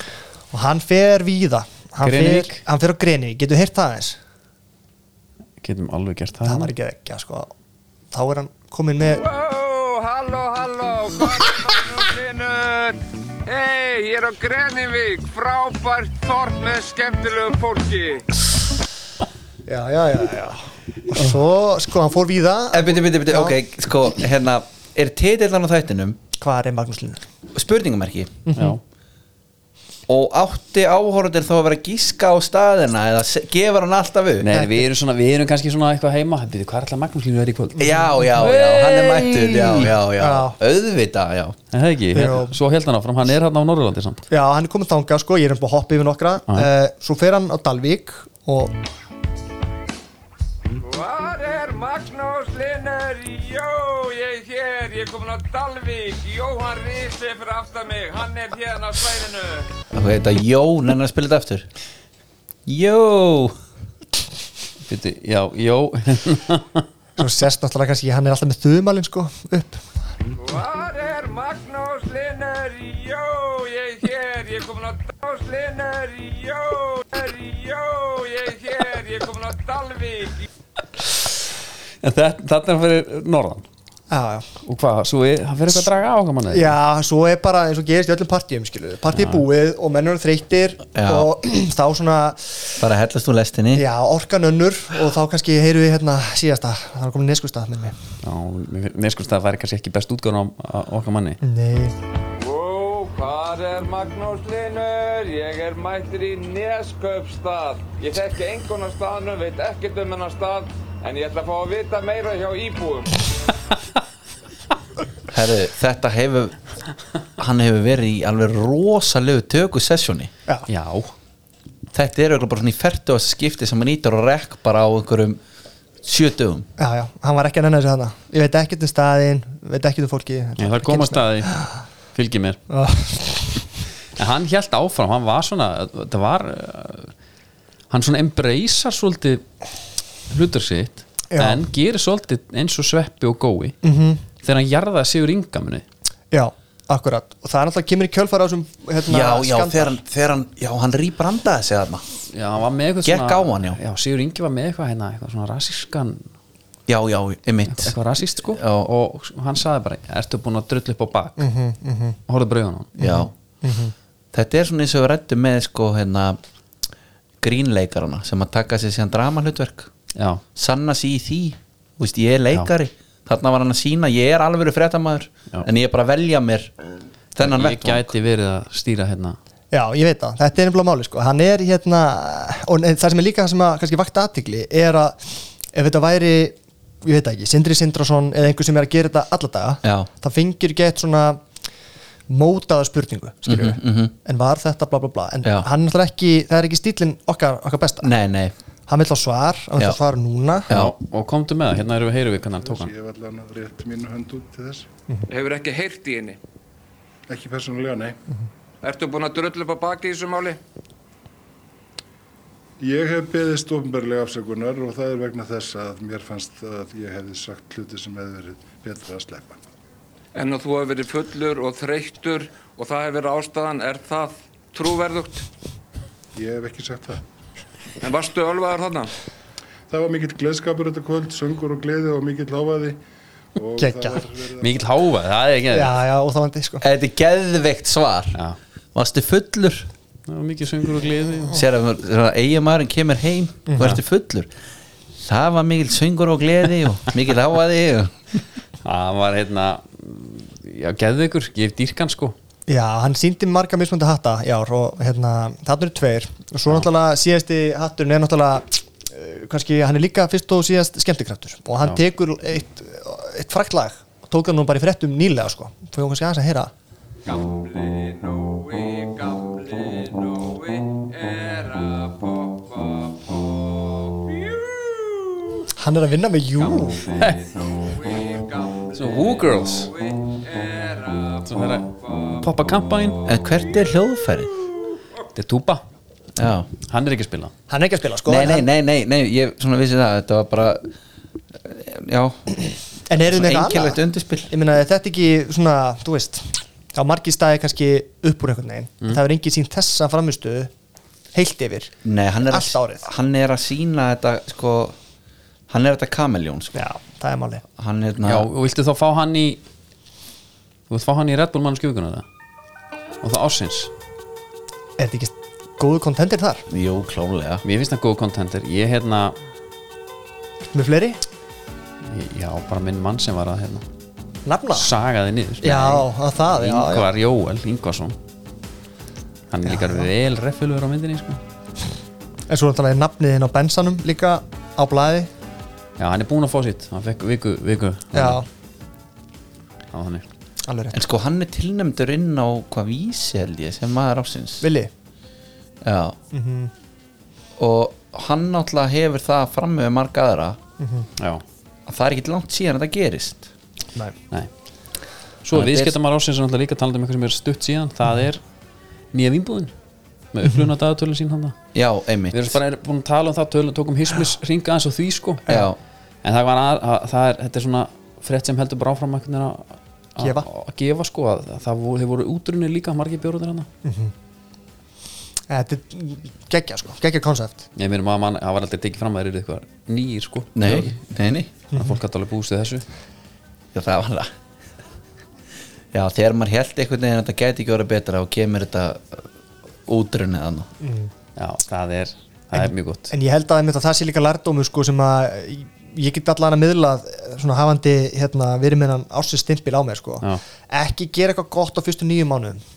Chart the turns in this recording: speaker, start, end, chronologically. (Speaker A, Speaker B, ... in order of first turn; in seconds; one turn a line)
Speaker A: 0.5-4.2
Speaker B: 2.0-2.6
Speaker B: 5.6-6.7
Speaker A: 6.4-7.5
Speaker A: 8.1-9.2
Speaker C: 9.1-18.2
Speaker A: 19.6-23.6
Speaker D: 22.7-26.2
Speaker A: 26.4-27.2
Speaker D: 27.5-28.4
Speaker A: 28.5-28.8
Speaker D: 30.1-34.5
Speaker B: 34.4-40.0
Speaker A: 34.5-34.9
Speaker D: 37.8-41.6
Speaker A: 37.8-38.1
Speaker A: 40.1-40.6
Speaker B: 41.7-44.2
Speaker A: 42.1-42.5
Speaker A: 44.3-48.7
Speaker C: 50.8-59.7
Speaker D: 59.9-61.7
Speaker D: 62.6-63.5
Speaker B: 64.9-66.8
Speaker A: 67.2-69.9
Speaker C: 70.4-80.5
Speaker B: 82.0-83.6
Speaker A: 84.1-84.5
Speaker B: 84.6-86.7
Speaker A: 86.5-92.8
Speaker B: 89.2-89.4
Speaker D: 90.9-91.3
Speaker D: 92.8-93.8
Speaker A: 93.7-97.9
Speaker B: 98.2-101.4
Speaker A: 101.4-101.9
Speaker C: 102.4-113.2
Speaker D: 115.3-116.6
Speaker D: 117.4-120.3
Speaker B: 120.7-121.1
Speaker D: 121.9-125.4
Speaker D: 126.0-126.7
Speaker A: 126.8-131.7
Speaker B: 130.6-131.5
Speaker B: 132.1-132.6
Speaker A: 132.7-133.6
Speaker B: 134.2-137.1
Speaker B: 137.9-139.4
Speaker B: 140.3-143.8
Speaker A: 141.3-141.6
Speaker A: 143.8-144.2
Speaker B: 144.4-145.8
Speaker A: 146.3-149.9
Speaker D: 149.0-152.0
Speaker B: 152.3-156.2
Speaker D: 153.0-153.8
Speaker D: 156.9-158.9
Speaker B: 157.7-161.4
Speaker A: 161.4-162.2
Speaker B: 162.3-162.9
Speaker A: 163.0-163.9
Speaker D: 163.0-163.3
Speaker D: 164.3-166.4
Speaker D: 167.4-169.9
Speaker B: 170.2-170.4
Speaker D: 170.5-176.7
Speaker D: 177.3-178.1
Speaker B: 177.4-179.4
Speaker A: 179.7-191.4
Speaker D: 189.8-190.1
Speaker A: 192.3-198.1
Speaker D: 193.4-194.1
Speaker D: 198.0-198.5
Speaker A: 198.9-200.7
Speaker D: 200.7-200.9
Speaker B: 200.7-202.9
Speaker E: 202.4-204.9
Speaker C: 205.3-206.4
Speaker E: 207.3-208.2
Speaker C: 208.8-210.6
Speaker E: 212.8-219.6
Speaker C: 220.3-225.4
Speaker E: 226.3-227.2
Speaker C: 228.0-229.1
Speaker E: 229.9-233.0
Speaker E: 233.5-234.9
Speaker A: 233.8-234.2
Speaker B: 234.6-235.9
Speaker A: 235.7-236.8
Speaker D: 236.8-238.4
Speaker D: 238.9-239.9
Speaker B: 240.3-241.6
Speaker D: 241.5-244.5
Speaker A: 243.7-244.0
Speaker D: 245.2-248.2
Speaker B: 248.8-252.3
Speaker A: 252.7-266.7
Speaker C: 267.2-275.6
Speaker A: 275.8-277.0
Speaker B: 277.1-277.7
Speaker C: 277.7-282.4
Speaker B: 278.9-279.9
Speaker B: 281.4-283.2
Speaker D: 283.2-284.6
Speaker B: 285.3-285.8
Speaker D: 286.4-286.7
Speaker B: 286.9-287.5
Speaker A: 287.7-288.6
Speaker D: 288.2-290.9
Speaker D: 291.6-294.5
Speaker A: 293.1-300.7
Speaker A: 301.3-303.0
Speaker D: 302.0-304.9
Speaker D: 305.7-306.8
Speaker A: 306.7-307.6
Speaker D: 307.8-308.5
Speaker B: 308.2-309.6
Speaker B: 310.9-312.2
Speaker B: 313.2-313.9
Speaker A: 315.0-316.6
Speaker D: 316.7-317.6
Speaker B: 317.6-319.4
Speaker A: 320.7-321.2
Speaker B: 322.1-323.8
Speaker A: 324.4-324.9
Speaker B: 324.7-328.1
Speaker A: 325.6-327.1
Speaker B: 329.5-331.4
Speaker A: 329.6-330.1
Speaker A: 332.5-335.3
Speaker B: 336.0-338.4
Speaker A: 338.1-338.4
Speaker B: 339.9-340.2
Speaker A: 340.6-341.0
Speaker D: 340.9-344.7
Speaker A: 344.6-344.9
Speaker D: 345.8-346.2
Speaker A: 346.3-346.7
Speaker D: 347.6-350.6
Speaker A: 350.8-351.1
Speaker B: 351.2-351.4
Speaker D: 351.9-353.5
Speaker B: 355.4-358.4
Speaker D: 355.5-356.0
Speaker B: 359.1-359.7
Speaker B: 360.3-361.6
Speaker D: 361.7-362.6
Speaker B: 362.3-365.4
Speaker D: 365.5-365.8
Speaker B: 366.2-373.7
Speaker A: 370.2-370.4
Speaker A: 373.8-374.1
Speaker A: 375.5-377.6
Speaker B: 377.8-380.9
Speaker D: 380.5-381.5
Speaker A: 381.7-382.0
Speaker B: 381.7-382.8
Speaker D: 383.7-384.3
Speaker D: 385.9-389.2
Speaker D: 389.9-390.7
Speaker A: 390.8-391.1
Speaker B: 391.4-393.1
Speaker A: 392.5-402.6